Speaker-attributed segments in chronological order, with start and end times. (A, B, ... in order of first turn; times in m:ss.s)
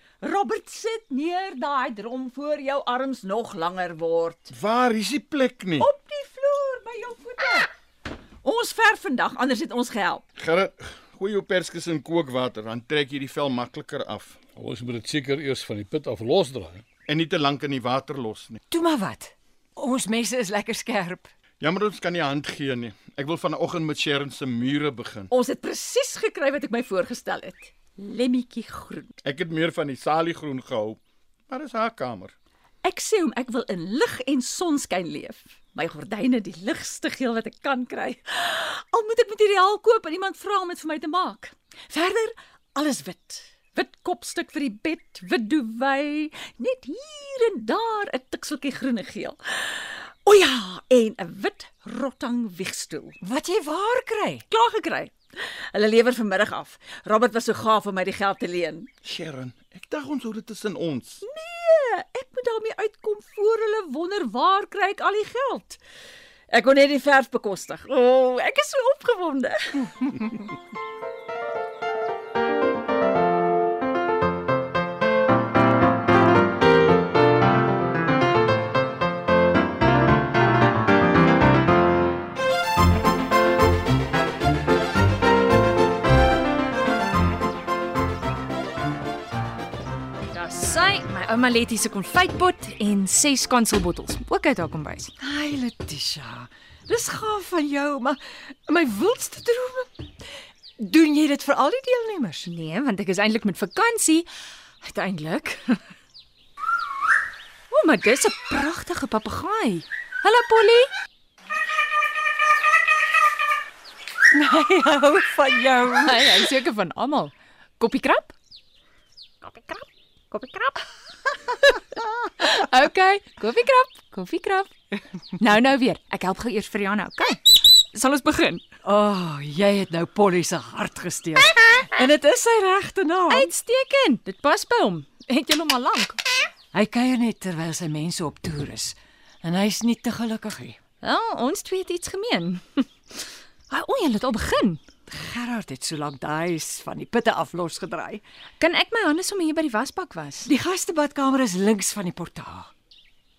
0:00.2-0:04.5 A
0:04.5-0:05.9 B
0:05.8-0:07.7 A
0:08.4-0:10.2 A
0:10.4-0:14.4 B
0:14.6-0:16.8 C
0:17.0-0:18.6 B
0:18.7-0:21.3 D
0:21.6-0:25.3 B
0:25.3-0:29.1 A
0:29.2-0:32.3 B
0:32.8-0:53.2 A
0:53.2-0:54.4 D
0:54.5-0:58.9 A
0:59.0-1:01.2 B
1:01.2-1:05.8 A
1:06.5-1:09.8 A
1:30.3-1:35.1 E
1:35.2-1:40.1 D
1:40.8-1:42.5 D
1:42.4-1:44.3 E
1:44.8-1:45.8 E
1:47.7-1:50.9 E
1:54.3-1:56.5 D
1:56.0-1:58.4 E
2:00.3-2:00.7 D
2:02.4-2:04.7 E
2:05.4-2:08.6 E
2:08.8-2:13.5 D
2:13.3-2:16.2 E
2:16.7-2:20.8 D
2:21.0-2:24.8 E
2:25.1-2:28.2 D
2:28.6-2:30.5 E
2:30.4-2:32.7 D